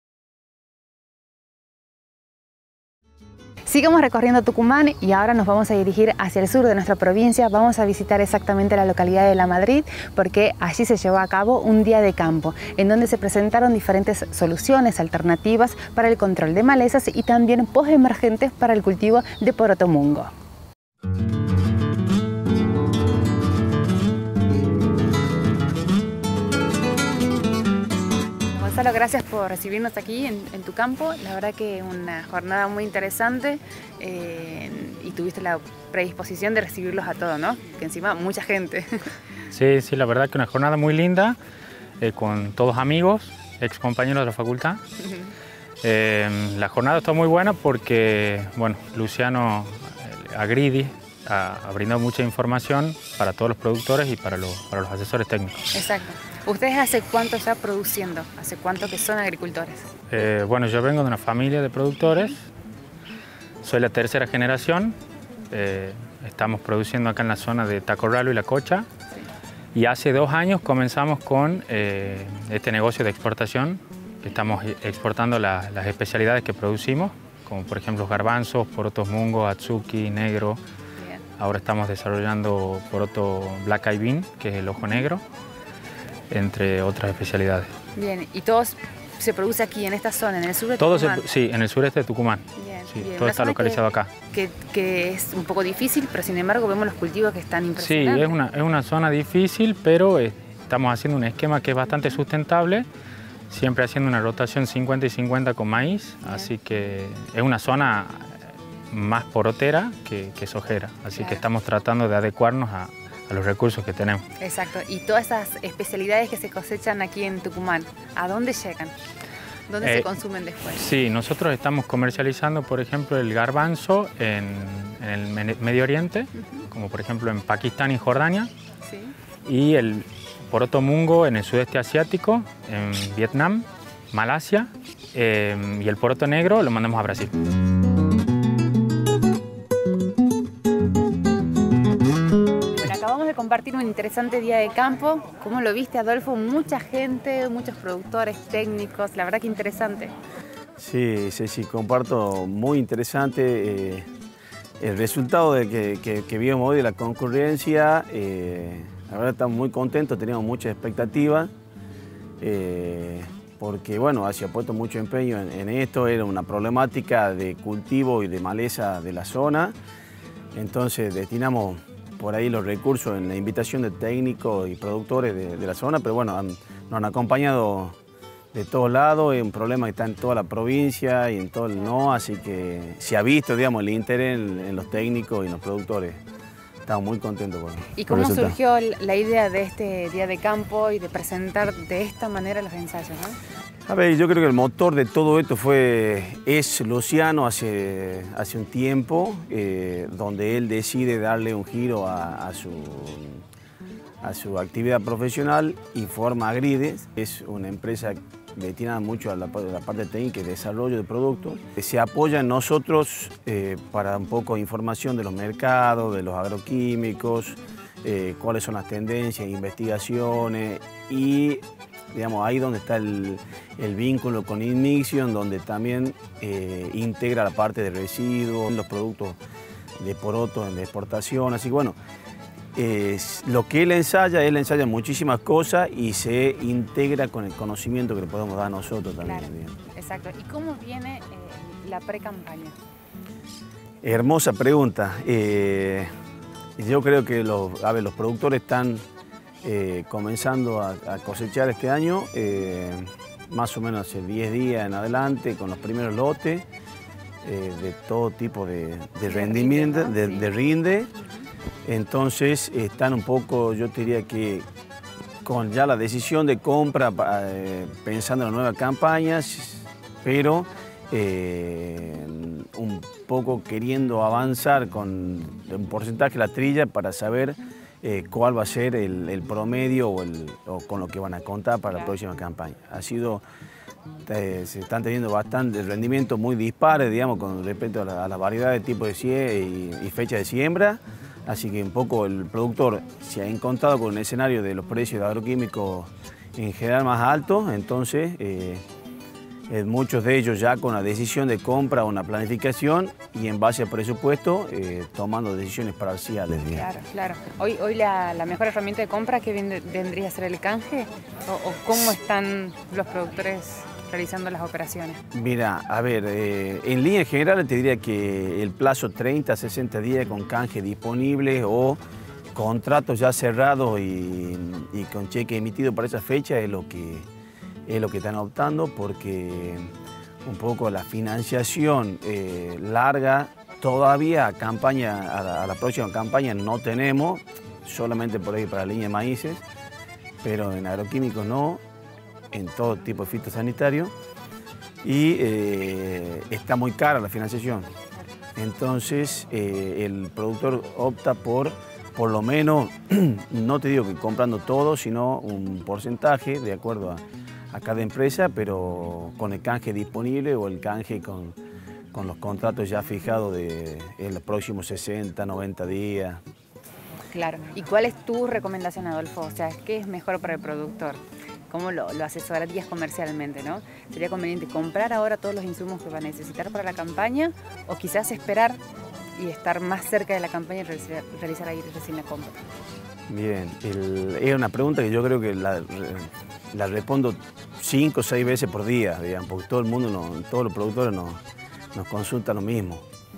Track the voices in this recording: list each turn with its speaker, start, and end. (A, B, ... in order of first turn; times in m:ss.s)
0:03.6-0:20.3 A
0:28.5-0:38.9 A
0:39.5-0:41.4 B
0:42.0-0:44.8 B
0:45.0-0:45.3 A
0:45.8-0:55.6 B
0:55.7-0:59.9 A
1:00.1-1:02.5 B
1:03.6-1:05.0 B
1:05.5-1:08.9 B
1:09.7-1:20.6 B
1:21.0-1:21.2 A
1:21.4-1:25.2 B
1:26.3-1:27.7 B
1:27.9-1:31.2 A
1:30.8-1:34.1 B
1:32.6-1:38.4 A
1:37.8-1:42.9 B
1:43.5-1:54.2 B
1:51.1-1:51.4 A
1:54.4-1:58.9 A
1:59.7-2:00.9 A
1:59.8-2:00.1 B
2:00.7-2:08.5 B
2:08.8-2:09.1 A
2:09.4-2:17.3 B
2:22.7-2:30.1 A
2:30.8-2:34.1 C
2:34.8-2:41.5 C
2:42.4-2:49.8 C
2:50.5-2:58.0 C
2:58.5-3:06.2 C
3:06.8-3:08.6 C
3:07.9-3:13.4 A
3:13.9-3:23.4 C
3:24.2-3:49.4 C
3:50.0-3:52.0 C
3:52.7-3:59.8 C
3:59.2-4:02.8 A
4:04.0-4:06.1 C
4:06.8-4:09.0 C
4:09.6-4:16.6 C
4:17.4-4:21.1 C
4:19.3-4:20.5 A
4:21.8-4:24.6 C
4:25.4-4:43.4 C
4:44.2-4:58.8 C
4:59.7-5:06.9 C
5:06.7-5:15.2 A
5:15.3-5:22.0 C
5:22.5-5:27.3 C
5:27.9-5:29.9 C
5:30.4-5:39.6 C
5:40.4-5:41.8 C
5:42.5-5:44.1 C
5:45.0-5:47.9 C
5:48.6-6:01.6 C
6:02.1-6:06.4 C
6:07.3-6:18.8 A
6:19.4-6:22.6 A
6:23.3-6:31.4 C
6:31.9-6:33.0 C